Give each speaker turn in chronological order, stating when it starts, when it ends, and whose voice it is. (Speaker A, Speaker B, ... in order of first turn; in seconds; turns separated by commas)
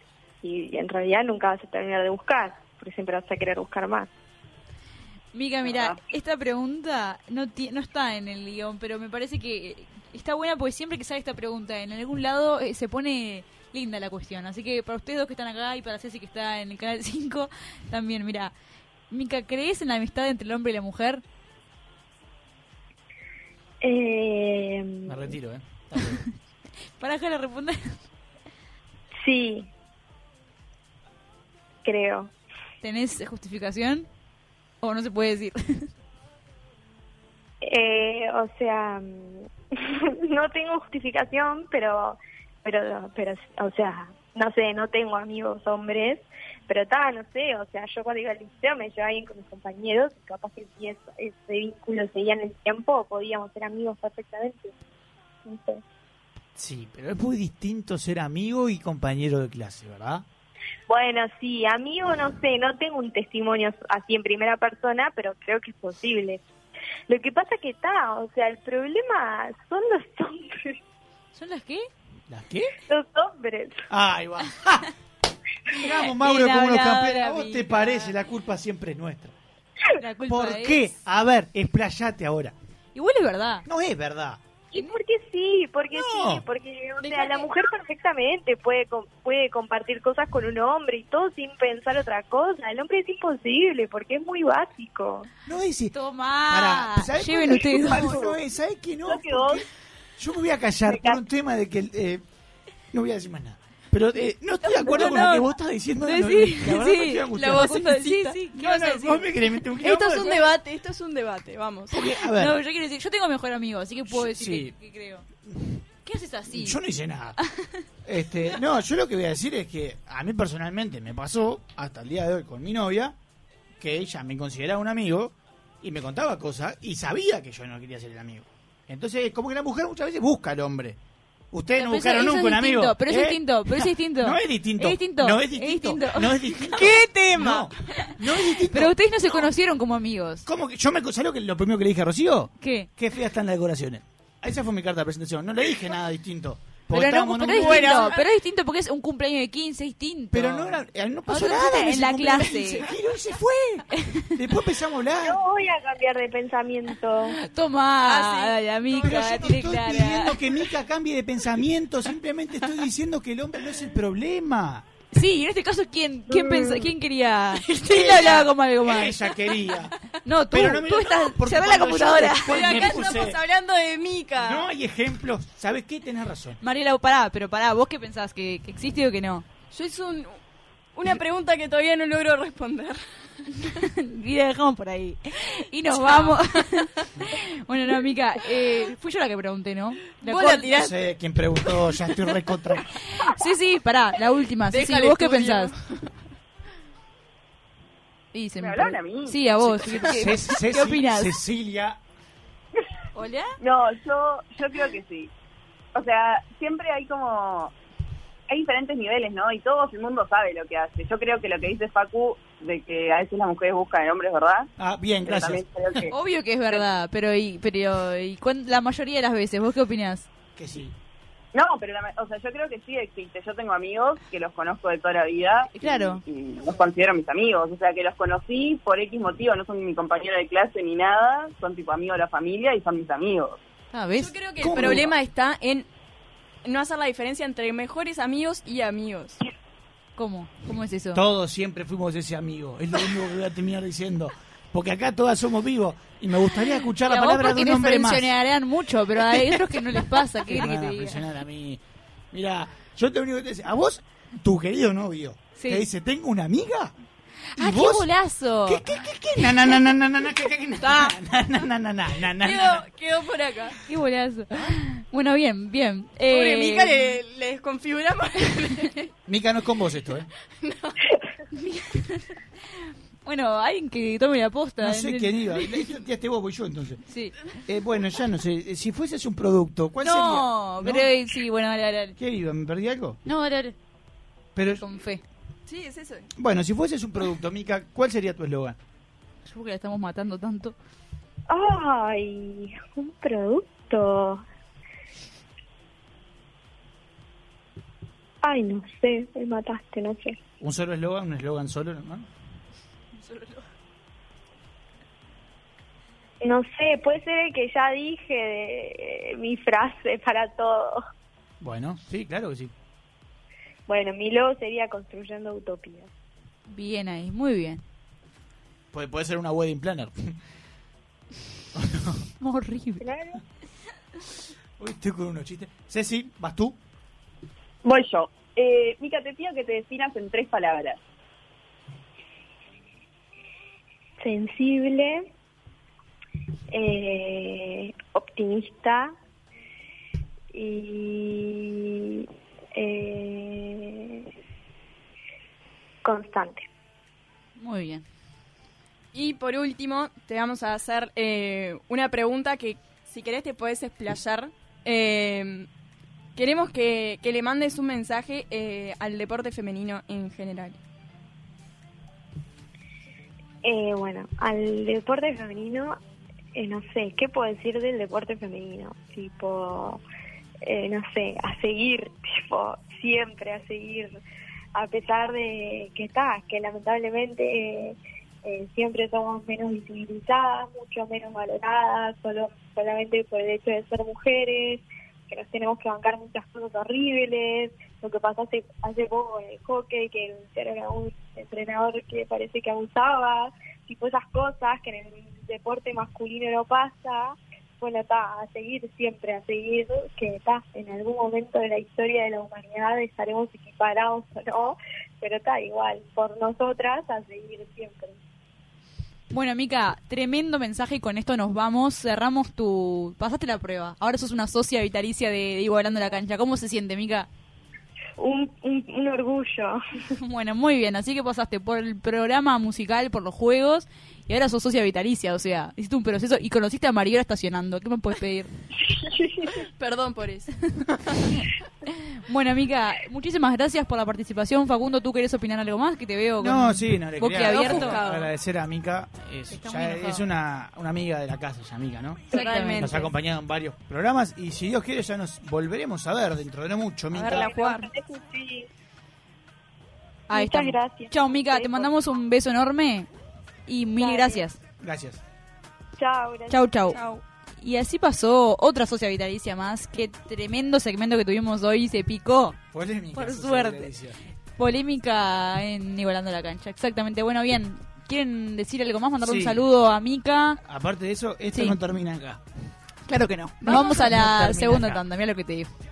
Speaker A: 0.4-4.1, Speaker B: 5.3-18.5, Speaker C: 5.6-6.0, Speaker B: 19.1-21.2, Speaker A: 23.8-25.4, Speaker D: 25.1-26.2, Speaker B: 27.0-28.0, Speaker A: 29.2-29.7, Speaker A: 31.8-32.3, Speaker B: 32.8-34.1, Speaker B: 34.8-35.9, Speaker A: 37.6-54.7, Speaker A: 55.5-55.8, Speaker D: 56.5-60.2, Speaker A: 60.9-66.4, Speaker A: 67.1-70.8, Speaker B: 71.3-71.9, Speaker D: 72.3-72.7, Speaker A: 72.9-73.9, Speaker D: 73.9-74.9, Speaker D: 75.7-79.4, Speaker B: 75.8-78.1, Speaker B: 80.0-80.9, Speaker D: 80.3-82.5, Speaker B: 83.0-83.7, Speaker D: 83.7-84.4, Speaker A: 84.7-95.3, Speaker D: 85.9-86.5, Speaker E: 87.0-87.5, Speaker D: 95.5-96.0, Speaker B: 95.9-98.2, Speaker D: 96.5-99.7, Speaker C: 99.1-99.6, Speaker D: 100.2-102.2, Speaker A: 100.9-101.2, Speaker D: 102.9-107.9, Speaker B: 104.8-105.5, Speaker B: 106.0-109.2, Speaker E: 107.3-112.0, Speaker D: 108.5-110.5, Speaker D: 111.9-112.6, Speaker B: 112.3-115.3, Speaker D: 114.1-114.8, Speaker D: 115.5-115.8, Speaker B: 116.0-116.8, Speaker D: 116.5-117.4, Speaker B: 117.4-117.8, Speaker D: 118.0-123.2, Speaker D: 123.8-131.0, Speaker D: 131.5-139.0, Speaker B: 131.8-136.9, Speaker E: 137.4-137.7, Speaker B: 138.7-140.4, Speaker D: 140.4-148.2, Speaker B: 142.6-142.9, Speaker B: 146.9-152.8, Speaker E: 147.5-148.2, Speaker D: 150.3-155.4, Speaker B: 153.9-154.3, Speaker A: 155.2-157.4, Speaker B: 157.3-160.4, Speaker E: 158.1-158.5, Speaker D: 158.9-164.9, Speaker B: 165.1-169.2, Speaker E: 167.7-168.1, Speaker D: 167.8-169.9, Speaker B: 170.2-172.9, Speaker D: 170.5-173.4, Speaker E: 172.2-174.7, Speaker D: 174.4-176.6, Speaker B: 176.6-179.4, Speaker E: 179.7-180.4, Speaker E: 180.9-183.4, Speaker B: 183.6-190.7, Speaker E: 185.9-187.1, Speaker E: 188.5-188.9, Speaker E: 190.2-190.9, Speaker D: 190.7-192.9, Speaker B: 193.0-195.7, Speaker E: 194.7-196.1, Speaker B: 198.3-201.3, Speaker C: 198.6-200.0, Speaker D: 199.9-202.0, Speaker B: 203.1-203.6, Speaker C: 203.6-205.3, Speaker C: 205.9-207.7, Speaker C: 208.5-214.7, Speaker D: 214.8-215.6, Speaker C: 215.2-216.1, Speaker B: 216.1-220.3, Speaker D: 220.6-221.0, Speaker C: 221.5-233.6, Speaker B: 225.8-226.2, Speaker B: 233.9-234.3, Speaker E: 234.1-235.9, Speaker D: 234.6-235.1, Speaker E: 236.6-239.4, Speaker B: 240.2-241.2, Speaker D: 241.1-248.3, Speaker B: 247.0-251.2, Speaker D: 249.2-251.8, Speaker D: 252.3-256.9, Speaker B: 255.6-255.9, Speaker B: 257.6-259.6, Speaker D: 257.6-258.1, Speaker D: 258.6-262.9, Speaker E: 260.8-261.1, Speaker E: 262.4-263.8, Speaker B: 263.9-267.1, Speaker E: 266.3-269.1, Speaker D: 269.3-270.3, Speaker E: 270.6-271.0, Speaker B: 271.5-272.4, Speaker B: 273.2-275.9, Speaker D: 274.8-281.1, Speaker B: 277.1-277.5, Speaker B: 280.0-282.2, Speaker D: 282.2-283.2, Speaker B: 283.3-283.8, Speaker D: 284.6-284.9, Speaker B: 284.8-285.2, Speaker E: 285.7-286.3, Speaker D: 286.4-288.8, Speaker B: 289.4-290.8, Speaker A: 291.5-294.4, Speaker A: 298.4-300.4, Speaker D: 300.6-302.3, Speaker B: 303.1-303.7, Speaker A: 306.4-311.0, Speaker D: 311.6-312.7, Speaker A: 313.9-316.1, Speaker B: 316.7-317.8, Speaker D: 318.9-320.3, Speaker D: 321.7-322.3, Speaker B: 322.4-323.1, Speaker A: 323.0-323.4, Speaker D: 324.8-326.8, Speaker C: 327.8-331.0, Speaker A: 334.2-335.3, Speaker A: 336.7-339.1, Speaker A: 340.5-344.3, Speaker A: 346.0-346.7, Speaker B: 347.6-348.1, Speaker E: 349.1-355.7, Speaker E: 356.4-360.8, Speaker A: 363.6-366.0, Speaker A: 366.6-370.0, Speaker A: 370.6-374.2, Speaker A: 374.7-408.2, Speaker B: 409.3-417.3, Speaker A: 418.2-419.8, Speaker B: 420.1-428.5, Speaker A: 428.9-429.5, Speaker E: 429.6-431.0, Speaker B: 431.3-438.0, Speaker D: 436.4-442.2, Speaker E: 437.4-438.3, Speaker B: 439.5-440.2, Speaker E: 442.3-443.1, Speaker B: 442.3-443.0, Speaker D: 442.8-447.6, Speaker E: 447.1-447.9, Speaker A: 447.3-448.7, Speaker B: 450.3-453.1, Speaker A: 450.3-451.9, Speaker B: 453.7-454.6, Speaker A: 454.0-454.4, Speaker D: 454.8-455.2, Speaker A: 456.0-456.6, Speaker B: 456.5-457.0, Speaker E: 456.9-457.2, Speaker B: 457.6-462.6, Speaker D: 462.7-464.2, Speaker B: 463.1-463.9, Speaker B: 464.6-470.6, Speaker D: 469.2-469.6, Speaker D: 470.6-472.4, Speaker B: 471.5-471.8, Speaker B: 473.1-475.7, Speaker E: 473.6-474.1, Speaker D: 473.6-475.0